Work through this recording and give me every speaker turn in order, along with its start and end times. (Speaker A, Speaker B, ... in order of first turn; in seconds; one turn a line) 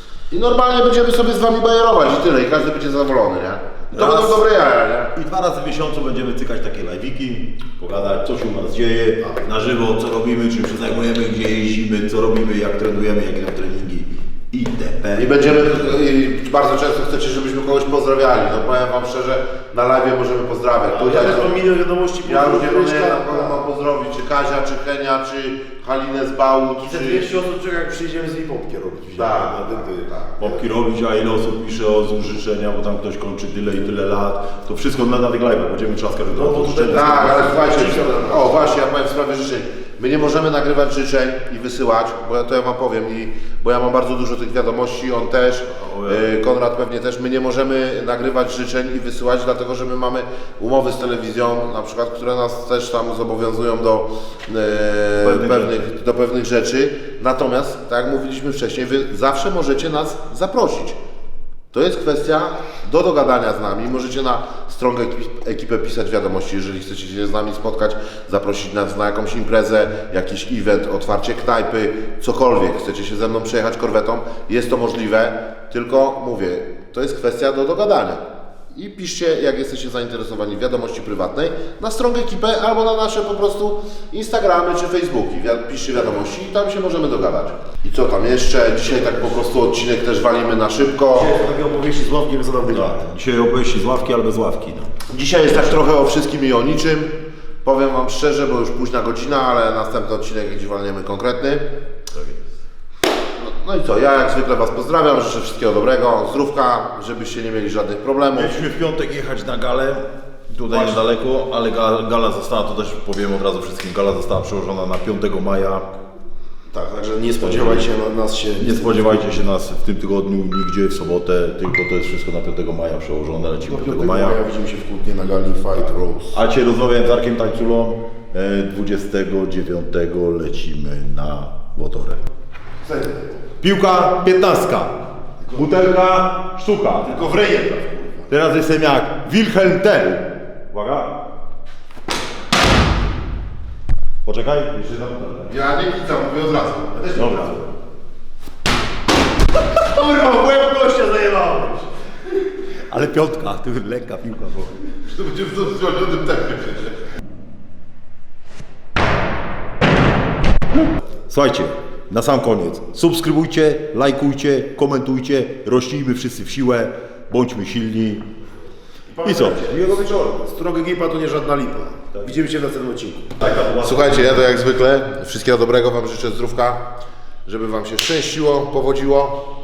Speaker A: 0.3-5.1
Speaker B: 3.9-4.5
Speaker B: 5.1-15.9
Speaker A: 15.2-21.6
Speaker C: 20.9-23.6
Speaker A: 22.2-27.3
Speaker C: 26.9-30.1
Speaker A: 29.1-30.6
Speaker B: 30.4-37.4
Speaker C: 36.3-38.5
Speaker A: 36.9-61.0
Speaker B: 45.7-46.3
Speaker B: 55.2-55.9
Speaker A: 61.7-91.3
Speaker C: 91.1-93.0
Speaker B: 92.7-94.9
Speaker A: 95.1-97.1
Speaker A: 97.7-101.7
Speaker B: 102.1-102.5
Speaker A: 103.4-108.6
Speaker B: 108.3-115.9
Speaker C: 116.7-119.4
Speaker B: 117.4-117.9
Speaker B: 118.6-124.4
Speaker C: 123.6-126.4
Speaker B: 126.3-132.2
Speaker C: 132.8-133.4
Speaker B: 133.6-135.0
Speaker B: 135.5-137.3
Speaker C: 137.1-138.3
Speaker B: 138.3-141.2
Speaker B: 144.2-145.5
Speaker A: 145.5-147.2
Speaker C: 147.0-147.6
Speaker B: 147.2-147.6
Speaker C: 149.7-151.9
Speaker B: 152.9-154.8
Speaker A: 155.0-157.0
Speaker B: 161.3-168.2
Speaker C: 169.1-173.4
Speaker B: 169.2-170.5
Speaker B: 172.1-172.4
Speaker B: 173.4-174.4
Speaker A: 173.7-176.8
Speaker A: 177.5-179.4